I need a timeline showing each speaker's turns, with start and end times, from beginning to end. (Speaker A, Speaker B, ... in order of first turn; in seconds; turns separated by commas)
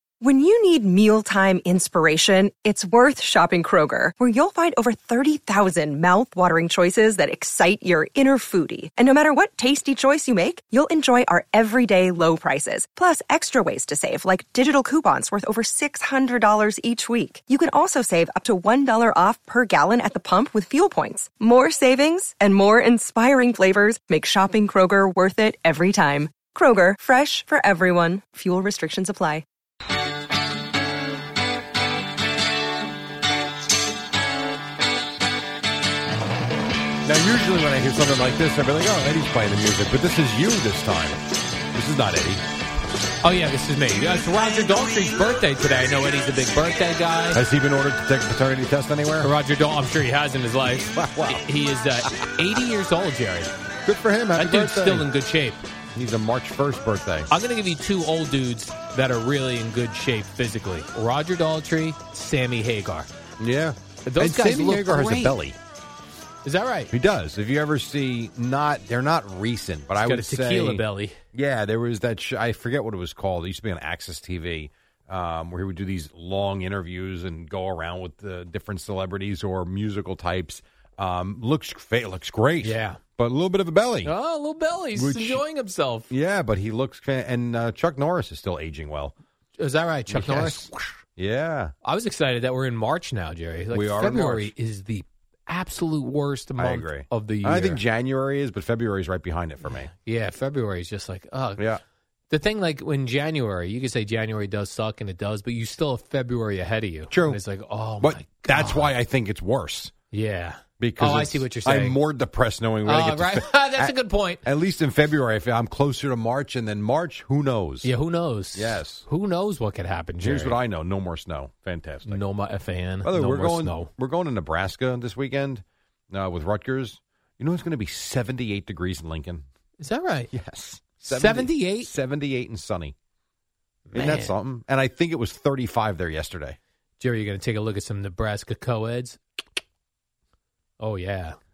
Speaker A: 0.2-29.4, Speaker B: 37.0-41.2, Speaker B: 41.7-42.4, Speaker C: 43.2-47.4, Speaker B: 47.3-49.3, Speaker C: 49.2-53.5, Speaker B: 50.9-51.5, Speaker B: 53.9-55.1, Speaker C: 54.3-55.6, Speaker B: 55.9-57.3, Speaker C: 57.3-63.1, Speaker B: 63.4-65.6, Speaker C: 64.0-65.4, Speaker C: 66.4-66.9, Speaker B: 66.9-84.1, Speaker C: 70.0-71.2, Speaker C: 82.6-83.0, Speaker C: 84.0-86.1, Speaker B: 84.9-85.4, Speaker B: 86.1-89.1, Speaker C: 89.6-91.0, Speaker B: 90.1-91.7, Speaker C: 91.8-97.8, Speaker B: 93.7-94.5, Speaker B: 96.6-99.9, Speaker C: 99.6-101.8, Speaker C: 102.3-108.9, Speaker B: 107.1-107.4, Speaker B: 108.0-109.9, Speaker C: 110.1-112.0, Speaker B: 110.8-117.9, Speaker C: 112.8-114.4, Speaker C: 117.8-120.6, Speaker B: 118.5-119.0, Speaker B: 120.2-122.2, Speaker C: 122.0-123.9, Speaker B: 123.0-129.4, Speaker C: 129.8-130.3, Speaker B: 130.3-132.9, Speaker C: 131.0-131.9, Speaker C: 133.9-134.4, Speaker B: 133.9-136.6, Speaker C: 137.0-139.2, Speaker C: 140.8-141.4